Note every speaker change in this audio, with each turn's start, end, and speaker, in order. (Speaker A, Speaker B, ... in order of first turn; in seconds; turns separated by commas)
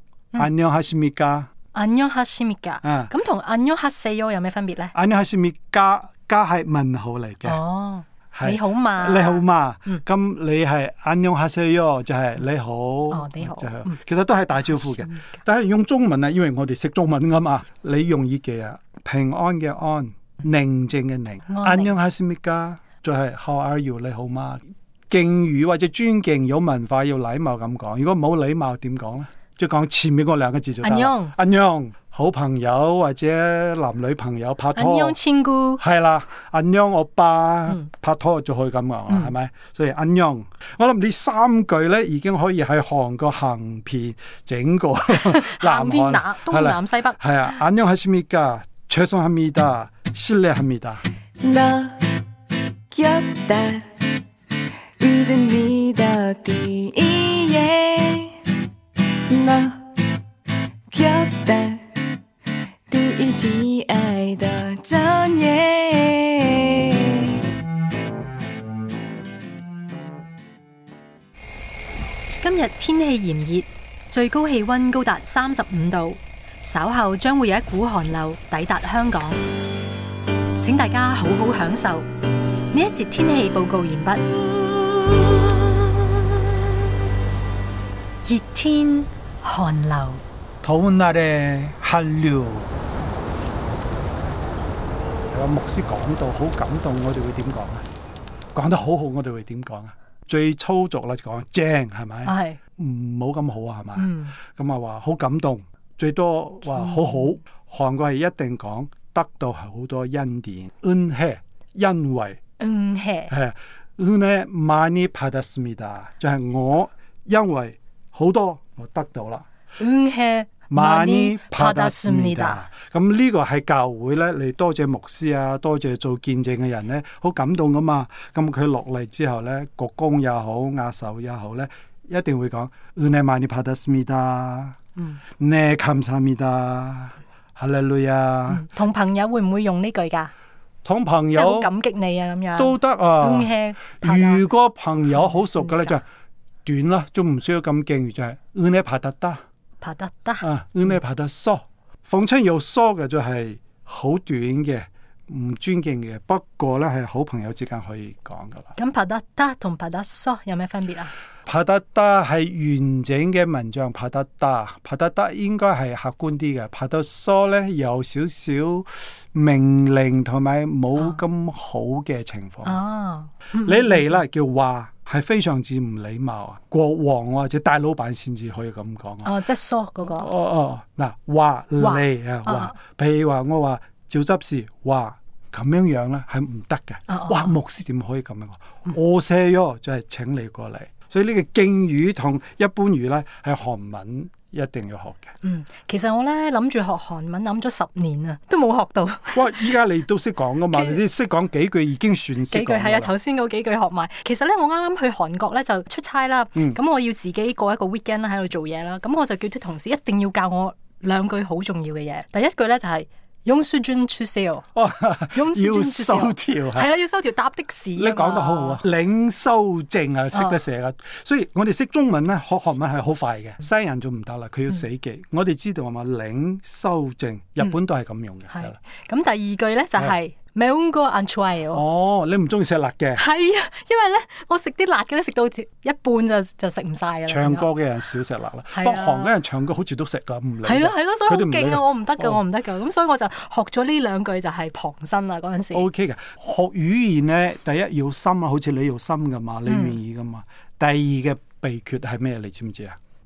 Speaker A: 0.3-1.5, Speaker B: 1.7-4.9, Speaker A: 2.8-3.1, Speaker A: 4.9-7.6, Speaker B: 7.5-10.0, Speaker A: 8.3-35.2, Speaker B: 13.1-14.0, Speaker B: 14.8-15.3, Speaker B: 21.5-21.9, Speaker B: 30.8-31.3, Speaker B: 34.8-35.8, Speaker A: 35.8-51.0, Speaker B: 45.1-47.2, Speaker C: 51.4-52.0, Speaker C: 52.9-53.9, Speaker C: 55.0-58.3, Speaker C: 59.3-59.8, Speaker C: 60.9-61.9, Speaker C: 62.9-67.4, Speaker B: 72.4-79.4, Speaker B: 80.6-82.1, Speaker B: 82.7-84.3, Speaker B: 85.0-85.9, Speaker B: 88.2-90.2, Speaker A: 90.6-92.7, Speaker A: 95.3-97.8, Speaker A: 98.5-112.4, Speaker B: 102.3-102.6, Speaker B: 104.0-104.4, Speaker B: 106.7-107.2, Speaker B: 112.6-113.3, Speaker A: 113.3-119.5, Speaker B: 119.8-122.7, Speaker A: 120.7-134.8, Speaker A: 135.4-138.7, Speaker B: 138.5-140.3, Speaker A: 140.8-141.7, Speaker B: 141.3-144.4, Speaker A: 142.6-146.0, Speaker B: 145.2-145.9, Speaker A: 146.7-149.4, Speaker B: 149.8-150.5, Speaker A: 150.4-158.7, Speaker B: 158.8-161.1, Speaker A: 161.5-172.8, Speaker B: 172.7-174.1, Speaker A: 173.6-179.3, Speaker B: 179.2-180.3, Speaker A: 180.1-195.3, Speaker B: 181.8-182.8, Speaker B: 187.1-187.5, Speaker B: 195.4-199.7, Speaker A: 199.3-203.1, Speaker B: 200.7-201.0, Speaker B: 202.5-214.7, Speaker A: 214.8-216.9, Speaker B: 215.3-218.8, Speaker A: 218.0-228.8, Speaker B: 220.3-220.6, Speaker B: 228.5-231.8, Speaker A: 231.7-233.2, Speaker B: 233.2-237.7, Speaker A: 237.3-242.4, Speaker B: 238.7-239.3, Speaker B: 240.6-245.9, Speaker A: 245.7-253.0, Speaker B: 249.7-250.0